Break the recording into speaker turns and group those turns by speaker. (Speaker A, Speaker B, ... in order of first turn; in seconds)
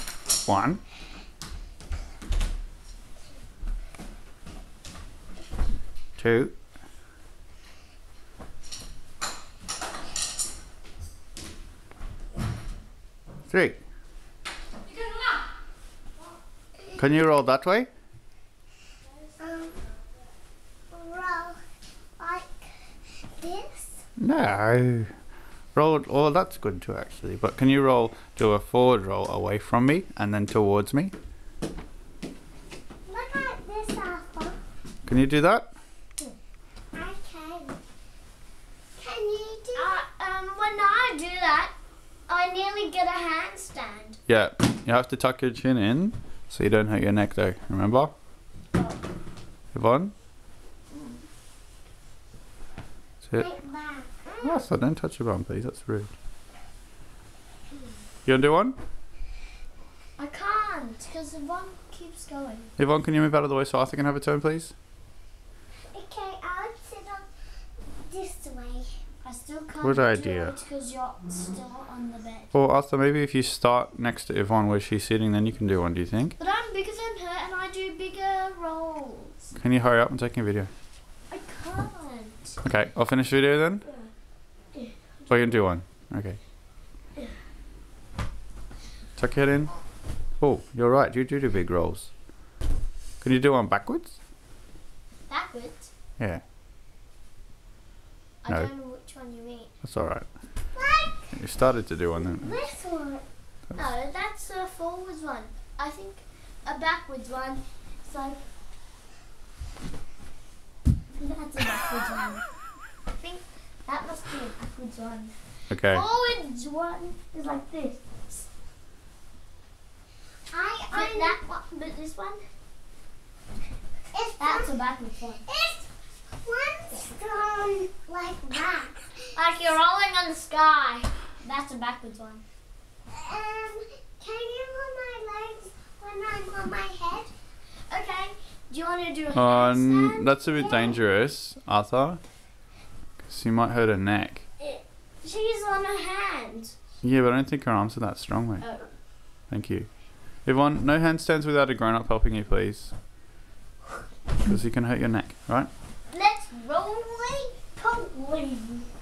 Speaker A: 0.5-0.8, 6.2-6.5, 13.5-13.8, 17.0-17.9, 24.2-25.1, 25.8-31.1, 35.0-35.7, 44.3-48.1, 49.7-50.1, 54.4-56.1, 58.3-58.8, 62.8-64.7, 69.8-70.5, 72.5-76.4, 79.6-80.7, 82.6-83.8, 85.3-86.4, 89.2-89.7, 90.4-92.1, 93.2-94.2, 99.8-100.3, 101.3-102.5, 115.7-116.0, 139.3-142.2, 143.2-144.4, 147.0-148.7, 149.5-149.9, 150.4-152.9, 154.4-155.7
Speaker B: 19.4-19.8, 20.9-21.6, 22.2-24.0, 33.1-34.6, 36.9-37.8, 39.0-40.0, 53.4-54.4, 65.9-67.3, 68.1-69.0, 100.8-101.3, 102.2-103.2, 120.5-121.4, 124.1-124.7, 125.5-125.9, 126.4-129.2, 133.1-137.3
Speaker C: 39.7-41.7, 42.3-44.2, 48.7-49.0, 60.2-62.7, 69.2-72.5, 76.4-79.5, 81.3-82.6, 83.8-84.1, 84.7-85.6, 95.3-95.9, 98.4-99.7, 103.7-108.4, 111.2-112.4, 113.2-118.5, 120.9-122.4, 124.4-125.5, 129.3-132.4, 137.9-140.9, 144.6-146.8, 148.6-148.9, 156.1-158.9